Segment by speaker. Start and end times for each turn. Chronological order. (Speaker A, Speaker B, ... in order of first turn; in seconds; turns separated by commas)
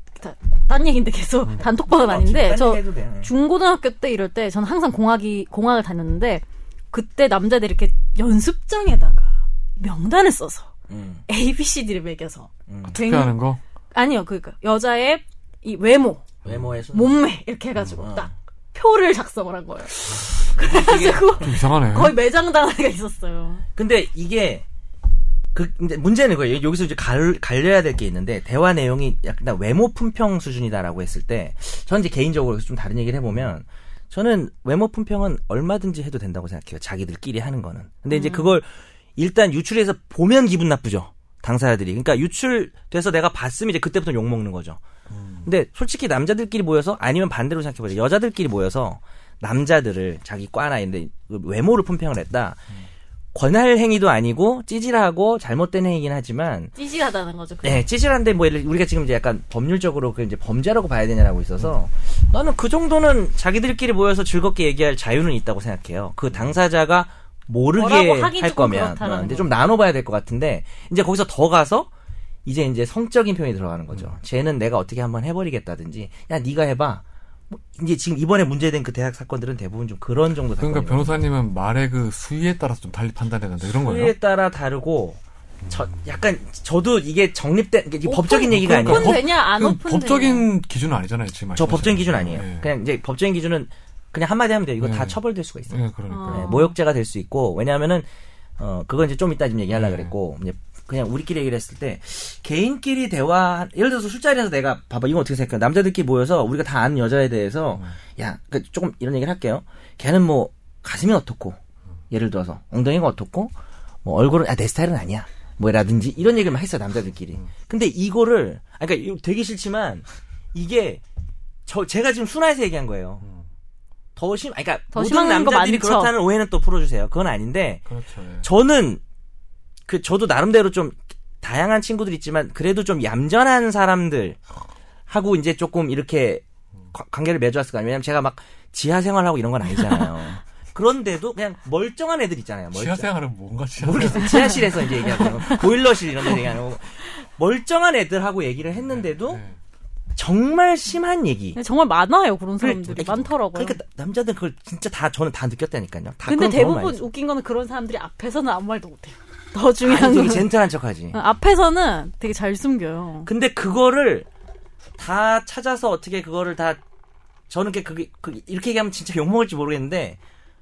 Speaker A: 0.2-10.7, Speaker B: 1.9-3.3, Speaker B: 10.9-11.2, Speaker A: 11.3-13.4, Speaker B: 12.7-12.9, Speaker C: 12.9-13.6, Speaker A: 13.9-16.3, Speaker B: 16.4-17.2, Speaker A: 16.9-23.6, Speaker B: 18.0-18.3, Speaker B: 20.6-21.4, Speaker C: 21.4-22.1, Speaker B: 23.8-24.6, Speaker B: 25.5-44.8, Speaker A: 38.1-38.5, Speaker C: 45.1-45.5, Speaker B: 45.4-52.7, Speaker B: 53.3-56.7, Speaker A: 56.8-57.9, Speaker B: 57.6-71.9, Speaker A: 67.7-69.5, Speaker B: 72.4-81.2, Speaker C: 80.6-84.1, Speaker B: 83.7-89.2, Speaker C: 85.7-86.0, Speaker A: 88.0-90.5, Speaker C: 88.5-92.7, Speaker B: 91.5-95.8, Speaker C: 94.8-95.2, Speaker C: 95.7-96.5, Speaker A: 96.1-96.7, Speaker B: 96.3-98.1, Speaker B: 98.6-111.6, Speaker C: 99.7-100.1, Speaker B: 112.1-121.0, Speaker B: 121.7-123.2, Speaker B: 124.2-127.8, Speaker A: 124.9-126.1, Speaker C: 127.9-128.5, Speaker B: 128.4-129.0, Speaker B: 129.9-134.4, Speaker B: 135.1-143.1, Speaker C: 142.7-145.6, Speaker B: 143.8-149.4, Speaker C: 148.8-149.6, Speaker B: 150.2-151.6, Speaker A: 151.5-153.8, Speaker B: 152.6-157.1, Speaker A: 156.2-160.5, Speaker B: 159.8-161.2, Speaker A: 161.1-163.3, Speaker B: 163.2-164.3, Speaker B: 165.0-166.8, Speaker B: 167.5-170.2